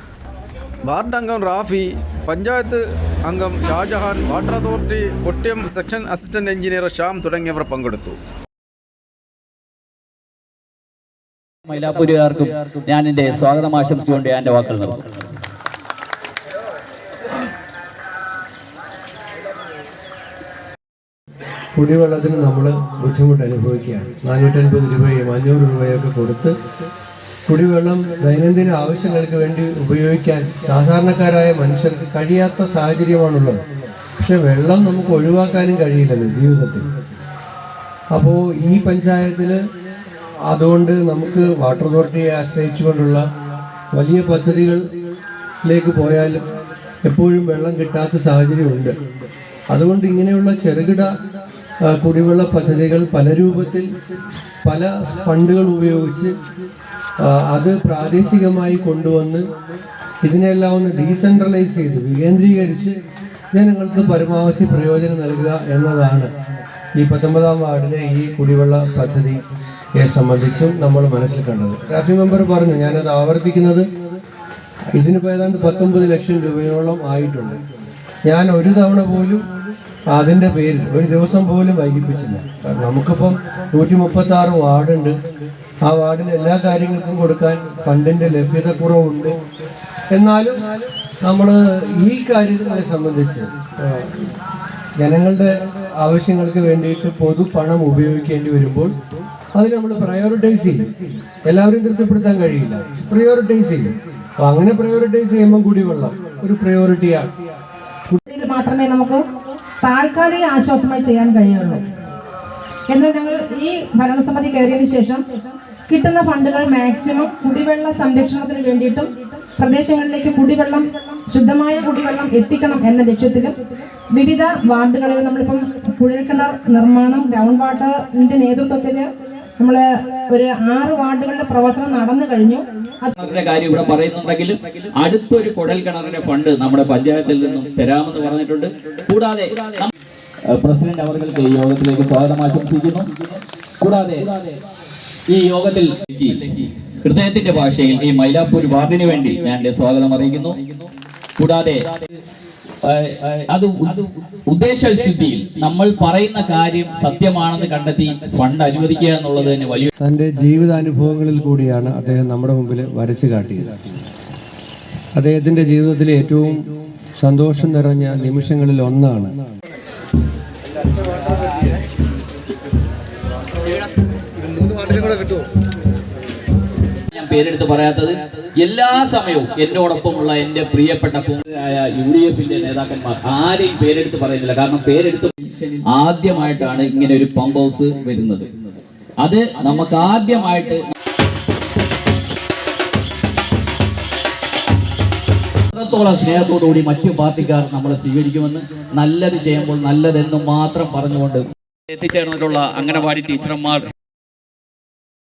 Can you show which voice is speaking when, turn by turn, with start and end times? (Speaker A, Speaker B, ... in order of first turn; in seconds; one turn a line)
Speaker A: 0.8-8.2
Speaker B: 11.7-15.0
Speaker C: 21.8-26.6
Speaker C: 27.5-33.6
Speaker C: 34.2-36.9
Speaker C: 38.1-39.7
Speaker C: 40.5-43.2
Speaker C: 43.9-44.9
Speaker C: 45.6-46.4
Speaker C: 47.0-49.0
Speaker C: 49.7-51.2
Speaker C: 51.9-53.9
Speaker C: 54.6-56.4
Speaker C: 57.2-59.5
Speaker C: 60.2-63.0
Speaker C: 63.5-66.3
Speaker C: 67.0-69.4
Speaker C: 70.0-73.9
Speaker C: 75.0-77.6
Speaker C: 78.3-79.5
Speaker C: 80.1-85.2
Speaker C: 85.8-89.4
Speaker C: 90.1-90.7
Speaker C: 91.2-94.3
Speaker C: 95.0-98.9
Speaker C: 99.5-100.9
Speaker C: 101.5-107.3
Speaker D: 108.3-109.2
Speaker D: 109.8-111.8
Speaker D: 112.9-123.6
Speaker D: 124.1-133.1
Speaker B: 133.2-139.9
Speaker B: 140.5-144.6
Speaker B: 145.3-150.6
Speaker B: 151.4-151.8
Speaker B: 152.8-159.9
Speaker C: 160.0-163.9
Speaker C: 165.2-169.4
Speaker A: 174.8-175.4
Speaker B: 177.1-188.5
Speaker B: 189.2-190.9
Speaker B: 195.7-203.9